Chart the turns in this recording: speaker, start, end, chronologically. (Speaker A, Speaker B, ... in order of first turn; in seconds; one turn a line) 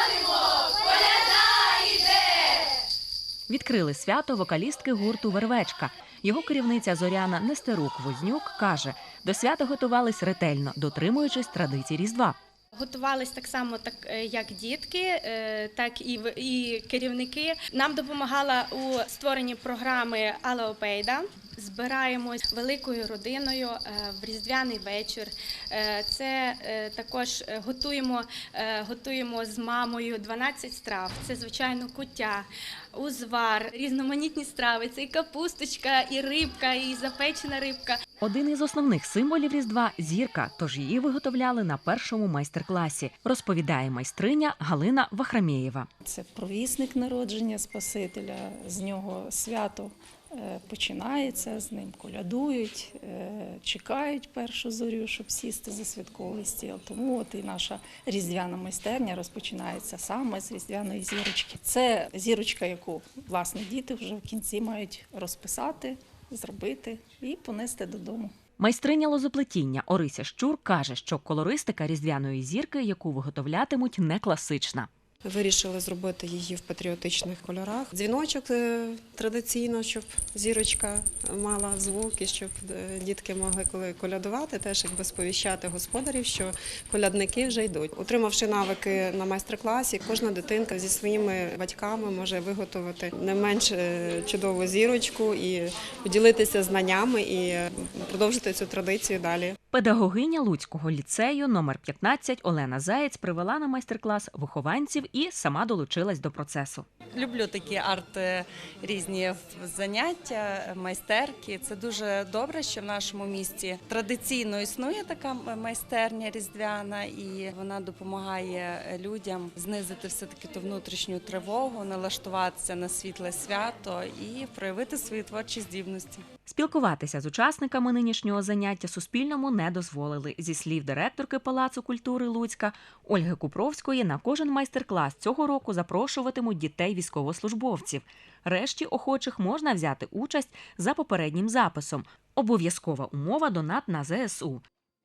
Speaker A: 3.5-12.4
Speaker B: 12.8-38.0
Speaker A: 38.2-45.9
Speaker C: 46.0-68.3
Speaker A: 68.6-74.9
Speaker D: 75.2-99.6
Speaker A: 99.7-106.9
Speaker E: 107.1-126.2
Speaker A: 126.5-144.6